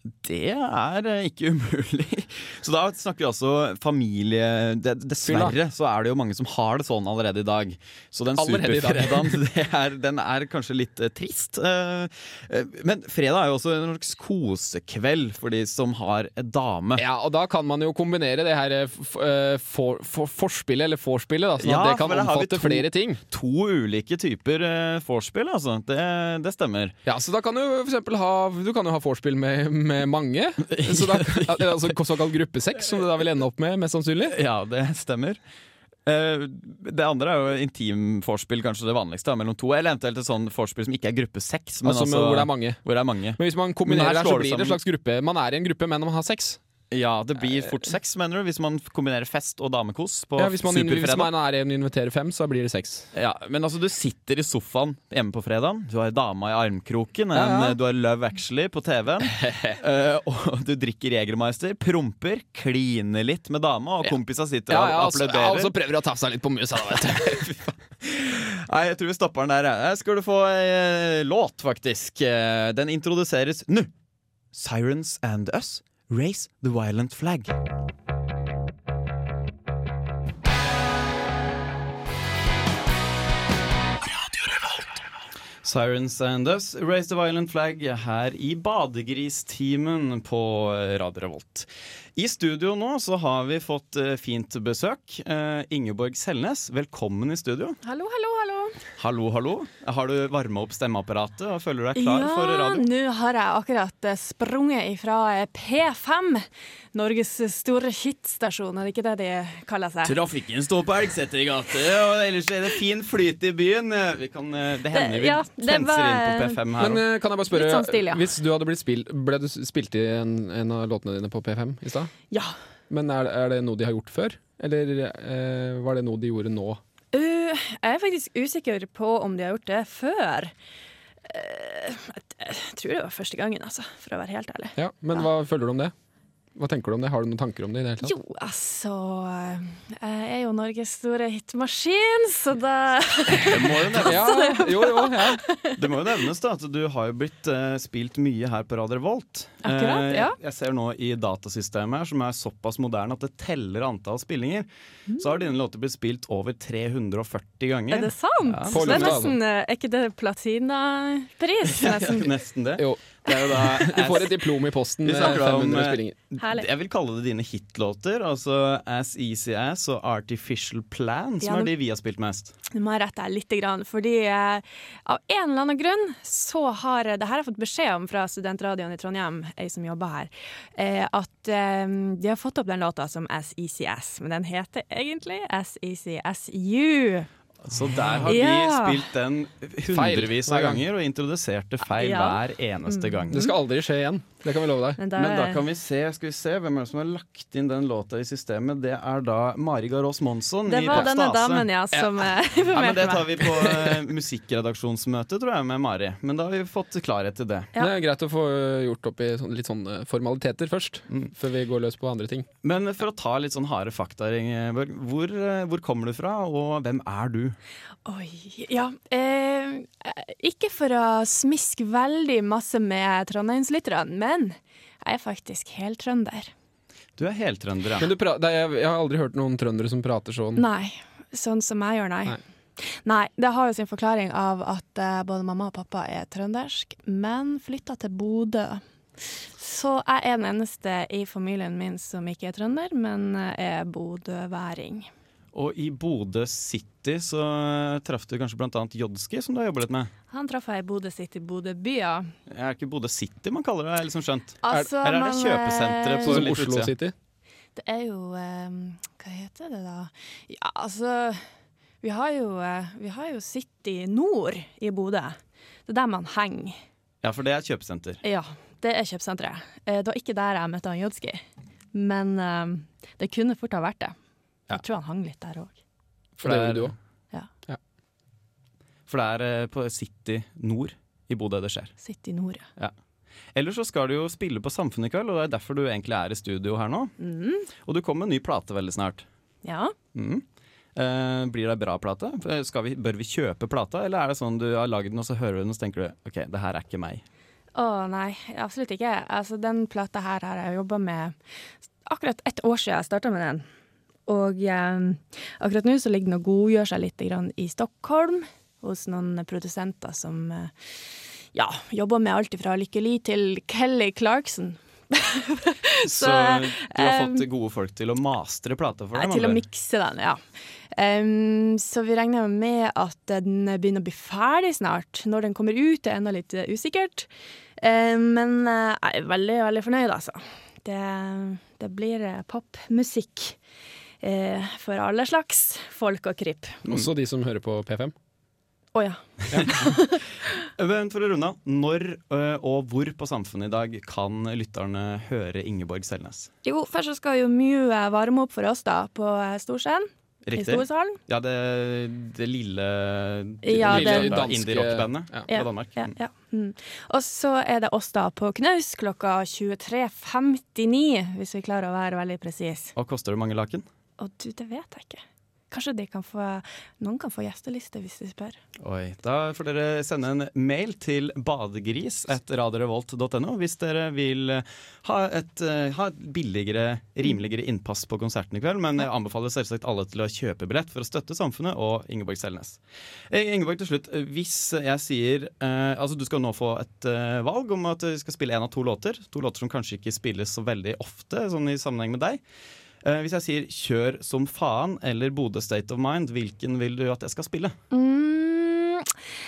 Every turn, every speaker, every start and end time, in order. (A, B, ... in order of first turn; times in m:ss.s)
0:00.2-0:17.0 A
0:05.2-0:05.6 B
0:08.4-0:09.4 B
0:17.0-0:23.2 B
0:21.6-0:27.0 A
0:27.1-0:34.4 B
0:30.7-0:32.0 A
0:34.3-0:35.4 A
0:36.1-0:44.8 A
0:41.8-0:42.8 B
0:43.4-0:46.6 B
0:46.9-0:51.3 A
0:50.4-0:53.1 B
0:53.1-1:05.8 A
0:57.3-0:57.8 B
0:59.2-0:59.8 B
1:04.7-1:07.6 B
1:07.2-1:13.9 A
1:14.5-1:17.6 A
1:25.6-1:37.8 A
1:37.8-1:38.8 C
1:39.0-1:42.8 A
1:42.0-1:50.2 C
1:50.0-1:57.0 A
1:54.9-1:56.6 C
1:56.8-2:02.1 B
1:57.5-1:58.3 C
2:02.9-2:06.8 B
2:07.1-2:10.5 C
2:11.3-2:15.2 C
2:14.8-2:15.9 B
2:16.6-2:18.1 B
2:18.0-2:26.0 C
2:23.4-2:24.2 A
2:24.0-2:25.4 B
2:25.8-2:39.2 A
2:29.6-2:30.4 C
2:37.9-2:42.3 C
2:38.7-2:39.4 B
2:41.6-2:44.5 A
2:42.8-2:46.2 B
2:45.0-2:52.5 A
2:46.4-2:46.7 C
2:51.4-2:51.7 C
2:52.7-3:07.3 C
3:07.6-3:13.4 A
3:08.3-3:09.0 C
3:09.9-3:10.8 B
3:11.9-3:13.5 C
3:13.3-3:15.0 B
3:15.0-3:15.6 C
3:15.2-3:22.0 A
3:20.7-3:23.5 C
3:22.7-3:27.7 A
3:27.8-3:32.5 B
3:32.6-3:37.6 A
3:38.1-3:46.5 C
3:47.2-3:48.1 A
3:48.0-3:50.6 B
3:50.6-3:58.8 C
3:59.6-4:05.1 C
4:05.5-4:10.1 A
4:10.3-4:12.3 C
4:12.5-4:16.9 A
4:14.6-4:16.4 C
4:16.2-4:17.1 B
4:17.8-4:21.4 C
4:22.0-4:26.8 C
4:27.2-4:28.2 A
4:28.2-4:31.4 C
4:31.9-4:34.2 C
4:34.7-4:35.8 C
4:36.4-4:37.0 B
4:36.4-4:37.0 A
4:39.1-4:41.9 A
4:42.0-4:42.7 C
4:43.6-4:47.1 A
4:47.2-4:47.7 C
4:47.8-4:49.2 A
4:49.6-4:50.0 C
4:50.2-4:50.4 A
4:51.0-4:57.2 A
4:57.8-5:01.4 C
5:02.0-5:03.6 C
5:04.3-5:10.7 C
5:11.5-5:17.4 C
5:16.0-5:19.6 A
5:19.2-5:20.4 C
5:20.9-5:27.3 C
5:27.8-5:33.6 C
5:34.2-5:36.8 C
5:36.9-5:38.1 B
5:38.9-5:40.2 C
5:39.5-5:39.9 A
5:40.8-5:46.5 A
5:46.6-5:51.2 C
5:50.5-5:56.1 A
5:53.6-5:54.4 C
5:53.7-5:55.5 B
5:55.5-6:02.9 C
6:03.0-6:03.9 A
6:04.2-6:08.6 C
6:08.8-6:22.8 A
6:23.3-6:32.4 A
6:33.0-6:37.8 A
6:37.9-6:39.1 C